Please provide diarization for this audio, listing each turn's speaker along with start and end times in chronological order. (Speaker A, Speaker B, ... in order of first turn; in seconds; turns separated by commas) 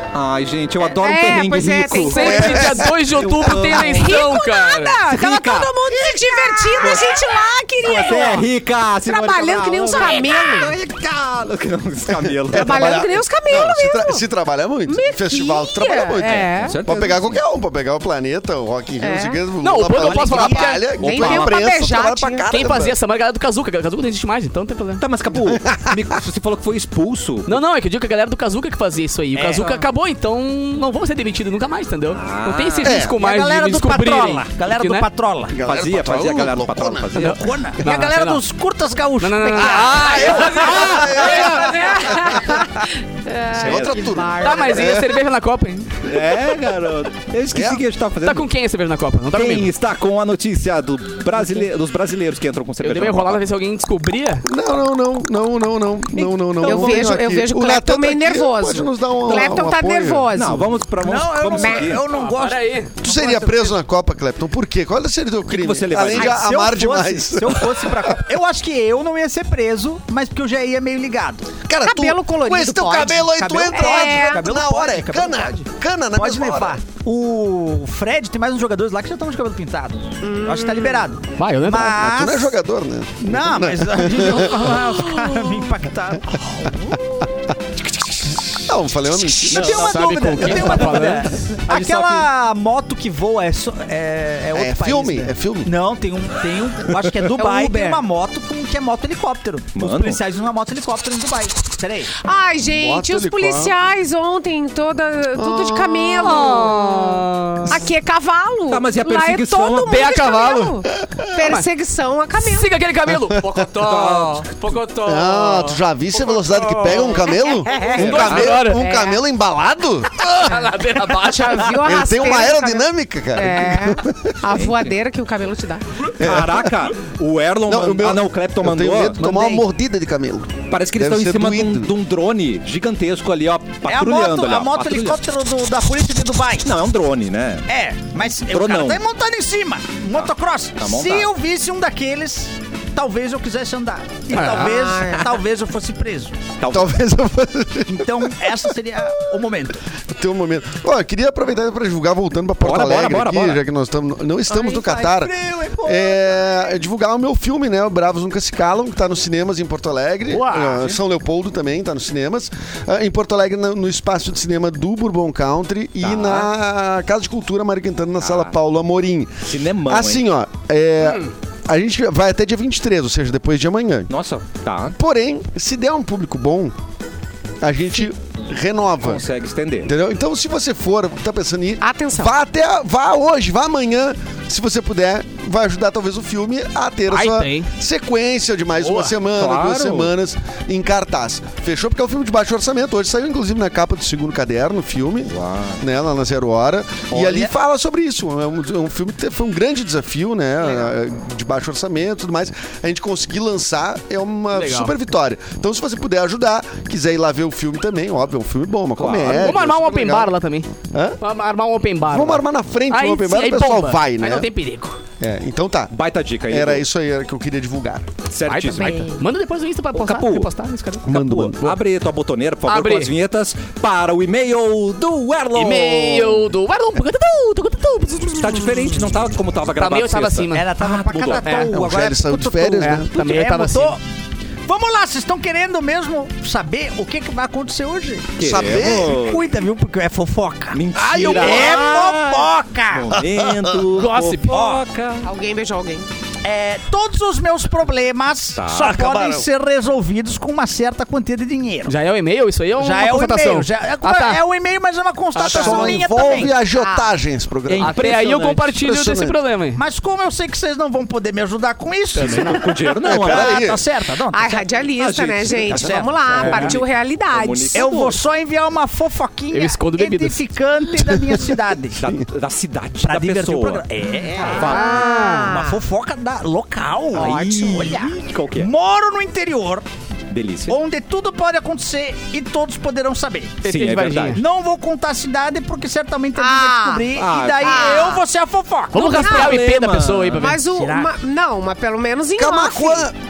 Speaker A: 0.1-4.2, Speaker B: 1.0-2.7, Speaker C: 2.0-5.0, Speaker D: 2.2-3.0, Speaker B: 3.5-8.5, Speaker A: 5.0-7.3, Speaker A: 7.8-13.1, Speaker B: 9.0-10.7, Speaker D: 12.5-22.9, Speaker B: 12.5-14.2, Speaker B: 14.9-16.8, Speaker A: 16.4-17.4, Speaker B: 19.0-19.4, Speaker C: 19.6-20.9, Speaker E: 19.9-20.8, Speaker B: 21.0-22.5, Speaker A: 21.1-21.5, Speaker C: 22.5-25.0, Speaker A: 25.0-27.6, Speaker D: 25.4-26.0, Speaker C: 27.4-35.1, Speaker E: 29.3-29.8, Speaker A: 32.2-33.0, Speaker D: 32.8-33.1, Speaker E: 33.1-35.6, Speaker D: 35.5-37.1, Speaker A: 35.6-37.4, Speaker C: 37.1-38.4, Speaker E: 37.3-40.6, Speaker C: 39.2-42.1, Speaker D: 39.8-42.6, Speaker A: 40.4-41.9, Speaker B: 41.5-45.0, Speaker D: 43.5-45.1, Speaker A: 43.6-43.9, Speaker C: 44.4-46.0, Speaker A: 46.0-48.5, Speaker D: 47.5-47.8, Speaker C: 48.2-49.7, Speaker A: 49.3-53.4, Speaker C: 52.8-54.4, Speaker D: 54.4-60.3, Speaker B: 56.6-60.7, Speaker A: 60.3-62.0, Speaker E: 61.0-63.8, Speaker B: 61.5-62.0, Speaker C: 62.0-62.9, Speaker D: 63.0-68.2, Speaker A: 65.5-66.4, Speaker E: 66.2-71.5, Speaker D: 71.7-76.8, Speaker B: 71.8-74.4, Speaker E: 73.4-82.5, Speaker B: 80.2-81.1, Speaker C: 81.4-82.0, Speaker D: 82.0-84.8, Speaker E: 83.2-87.0, Speaker D: 87.8-89.9, Speaker E: 89.4-102.1, Speaker A: 89.5-90.7, Speaker C: 89.7-91.3, Speaker A: 91.7-92.3, Speaker D: 94.5-95.7, Speaker B: 97.4-98.0, Speaker A: 99.7-100.2, Speaker B: 102.2-107.0, Speaker D: 102.7-103.7, Speaker D: 105.4-106.4, Speaker C: 106.2-107.8, Speaker B: 107.7-112.7, Speaker A: 108.7-110.2, Speaker C: 109.9-110.8, Speaker C: 111.4-111.7, Speaker C: 112.4-118.8, Speaker A: 113.8-114.5, Speaker D: 115.0-120.3, Speaker E: 117.7-118.2, Speaker B: 117.8-119.2, Speaker A: 118.1-118.5, Speaker C: 120.2-121.8, Speaker B: 121.2-125.8, Speaker D: 121.8-124.4, Speaker A: 124.5-124.9, Speaker A: 126.1-129.2, Speaker D: 126.2-126.7, Speaker D: 127.7-131.9, Speaker E: 129.2-129.6, Speaker A: 130.7-135.2, Speaker E: 133.9-136.7, Speaker A: 136.6-137.7, Speaker E: 137.7-146.4, Speaker A: 138.5-139.0, Speaker A: 140.1-141.3, Speaker C: 144.3-144.9, Speaker B: 144.5-145.4, Speaker A: 146.6-146.9, Speaker D: 146.7-148.7, Speaker E: 147.9-149.8, Speaker D: 150.1-174.1, Speaker A: 152.6-153.6, Speaker B: 154.5-154.8, Speaker E: 154.6-156.4, Speaker C: 160.3-160.8, Speaker A: 166.0-166.5, Speaker A: 168.2-168.5, Speaker A: 169.4-170.2, Speaker A: 174.1-175.0, Speaker D: 175.0-176.7, Speaker D: 177.6-179.2, Speaker A: 179.0-179.9, Speaker D: 179.9-210.3, Speaker B: 181.8-182.3, Speaker C: 187.1-187.7, Speaker C: 188.8-189.1, Speaker A: 189.3-190.1, Speaker A: 195.3-195.8, Speaker A: 197.1-197.5, Speaker C: 204.5-204.9, Speaker A: 209.0-209.5, Speaker C: 209.3-210.7, Speaker D: 210.9-211.2, Speaker C: 211.2-215.0, Speaker D: 212.1-214.5, Speaker D: 215.2-215.9, Speaker A: 215.9-216.8, Speaker D: 216.5-218.1, Speaker A: 218.3-219.0, Speaker C: 218.5-221.8, Speaker B: 218.7-219.2, Speaker A: 219.9-220.5, Speaker D: 221.1-221.6, Speaker A: 221.1-226.4, Speaker C: 222.7-223.1, Speaker C: 225.5-229.1, Speaker A: 228.4-231.7, Speaker C: 229.8-230.7, Speaker E: 230.5-234.0, Speaker C: 231.4-231.7, Speaker D: 231.7-233.1, Speaker C: 232.8-234.0, Speaker E: 234.7-238.5, Speaker A: 238.4-239.4, Speaker D: 238.4-239.2, Speaker E: 239.1-243.2, Speaker A: 240.7-245.3, Speaker D: 241.2-241.8, Speaker D: 243.4-243.8, Speaker C: 243.9-244.6, Speaker E: 244.5-244.8, Speaker B: 245.2-246.1, Speaker E: 246.4-251.9, Speaker A: 248.6-249.2, Speaker D: 249.0-249.5, Speaker C: 251.9-254.4, Speaker E: 252.8-256.6, Speaker C: 255.3-256.0, Speaker D: 255.4-258.0, Speaker B: 256.6-257.1, Speaker A: 257.7-258.7, Speaker E: 257.8-258.0, Speaker C: 257.8-259.8, Speaker D: 258.8-259.4, Speaker E: 259.8-264.6, Speaker C: 262.1-262.6, Speaker A: 262.3-263.7, Speaker D: 263.0-263.8, Speaker B: 264.3-267.9, Speaker A: 264.9-268.2, Speaker E: 265.7-266.7, Speaker C: 266.3-266.8, Speaker E: 267.7-272.0, Speaker C: 269.5-270.4, Speaker A: 271.9-273.8, Speaker E: 273.0-279.9, Speaker B: 274.4-275.8, Speaker A: 274.5-275.1, Speaker C: 274.5-275.5, Speaker B: 277.1-278.1, Speaker A: 277.1-278.7, Speaker A: 280.3-280.8, Speaker E: 280.7-283.7, Speaker C: 283.6-284.4, Speaker A: 283.6-284.4, Speaker E: 284.3-289.5, Speaker B: 286.4-287.1, Speaker A: 287.1-287.9, Speaker B: 287.6-288.2, Speaker C: 288.9-290.6, Speaker B: 289.1-289.6, Speaker A: 289.1-290.5, Speaker B: 290.3-293.1, Speaker E: 290.6-291.1, Speaker D: 292.4-293.1